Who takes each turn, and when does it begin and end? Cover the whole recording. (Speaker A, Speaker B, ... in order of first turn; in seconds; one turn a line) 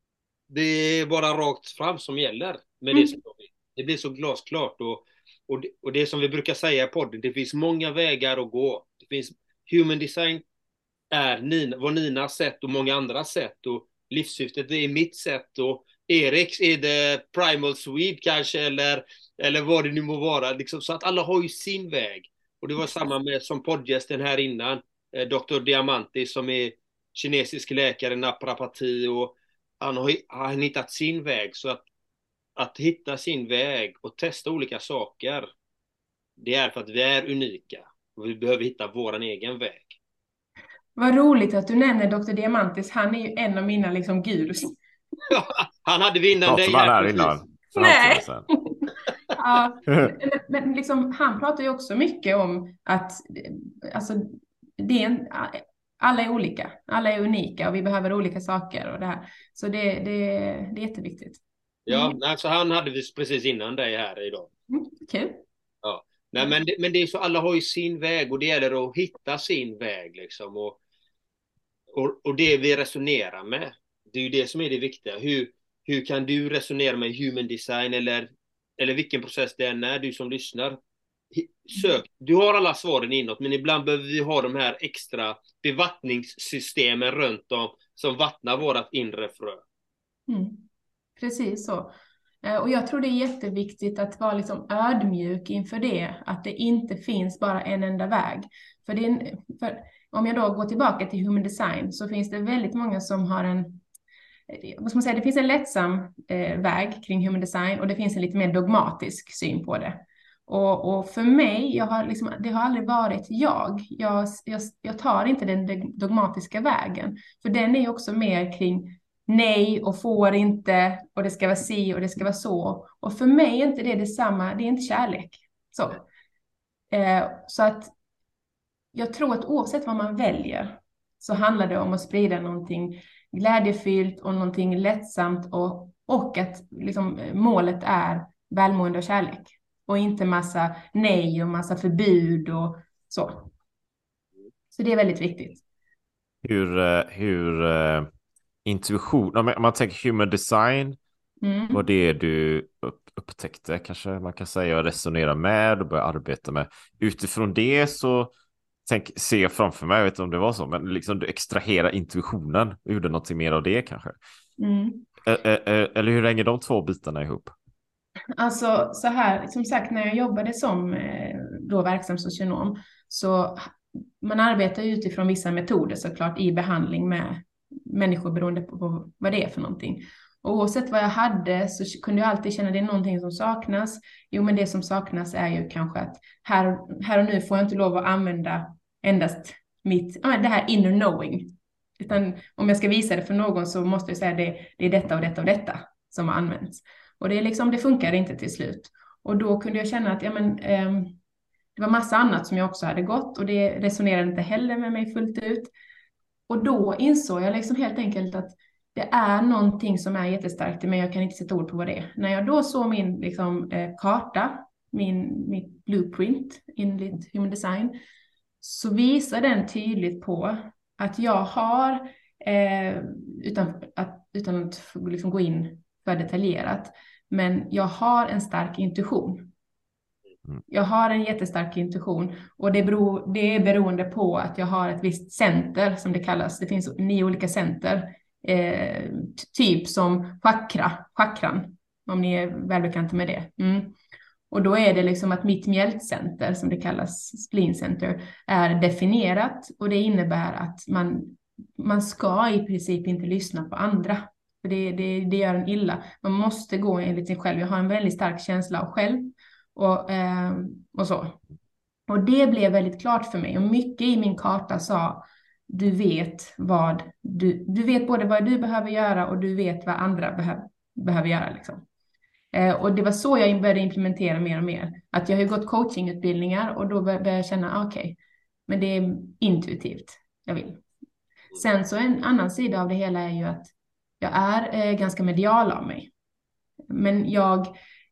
Speaker A: 0.5-10.4
Speaker A: 11.1-31.8
Speaker A: 32.6-35.5
Speaker A: 36.4-40.0
Speaker B: 41.0-44.7
Speaker A: 45.3-47.4
Speaker C: 46.4-48.5
Speaker B: 47.7-62.2
Speaker C: 49.9-50.1
Speaker A: 61.9-64.5
Speaker B: 64.7-65.4
Speaker A: 65.8-70.8
Speaker A: 71.9-80.8
Speaker A: 81.3-89.6
Speaker B: 90.3-90.6
Speaker B: 91.2-91.9
Speaker B: 92.4-103.8
Speaker B: 104.5-126.0
Speaker B: 126.9-127.9
Speaker B: 128.9-143.5
Speaker B: 144.7-145.6
Speaker C: 146.4-148.1
Speaker C: 148.7-151.0
Speaker B: 151.4-151.8
Speaker C: 151.7-158.3
Speaker C: 158.8-164.2
Speaker B: 164.6-165.0
Speaker C: 165.2-167.5
Speaker B: 168.4-201.2
Speaker B: 201.8-205.7
Speaker B: 206.5-218.0
Speaker B: 218.6-229.5
Speaker B: 230.7-243.9
Speaker B: 244.5-261.4
Speaker B: 262.1-271.8
Speaker B: 272.5-278.2
Speaker B: 278.7-280.8
Speaker B: 281.5-286.1
Speaker B: 286.9-287.7